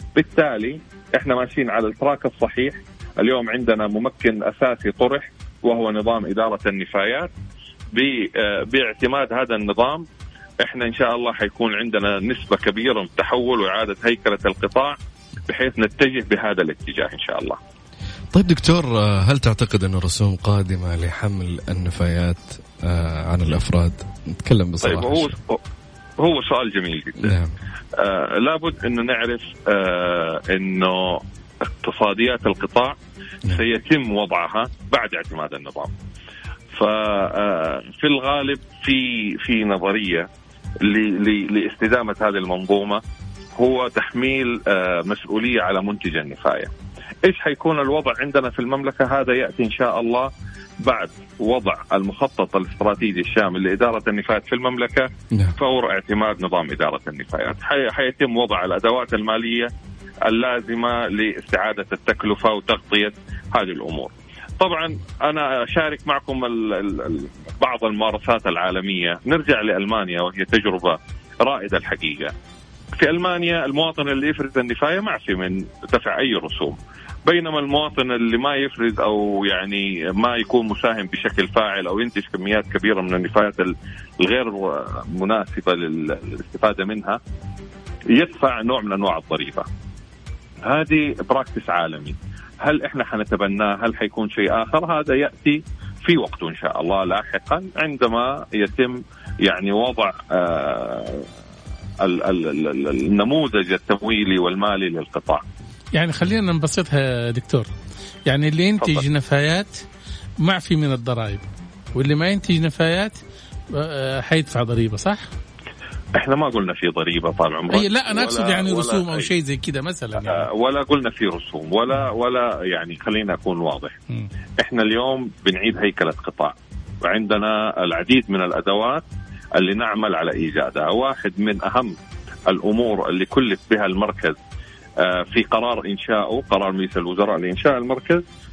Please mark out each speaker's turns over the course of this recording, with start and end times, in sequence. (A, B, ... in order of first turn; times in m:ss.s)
0:00.1-0:07.3 A
0:07.9-0:10.0 A
0:10.6-0:15.0 A
0:15.5-0:17.6 A
0:18.3-0:25.4 B
0:24.8-0:25.6 A
0:26.2-0:27.3 A
0:27.2-0:27.5 B
0:28.0-0:35.9 A
0:36.7-0:40.3 A
0:40.8-0:43.0 A
0:43.6-0:46.7 A
0:47.2-0:50.3 A
0:50.8-0:59.7 A
1:00.2-1:12.3 A
1:13.0-1:27.2 A
1:28.1-1:29.6 A
1:30.6-1:41.3 A
1:42.0-1:45.4 A
1:45.9-1:47.7 C
1:48.3-1:49.8 C
1:50.4-1:53.2 C
1:53.7-1:55.2 C
1:56.2-1:59.3 A
1:57.7-2:00.4 C
2:00.2-2:04.0 A
2:04.6-2:09.0 A
2:09.6-2:12.0 A
2:12.5-2:14.4 A
2:15.0-2:18.2 A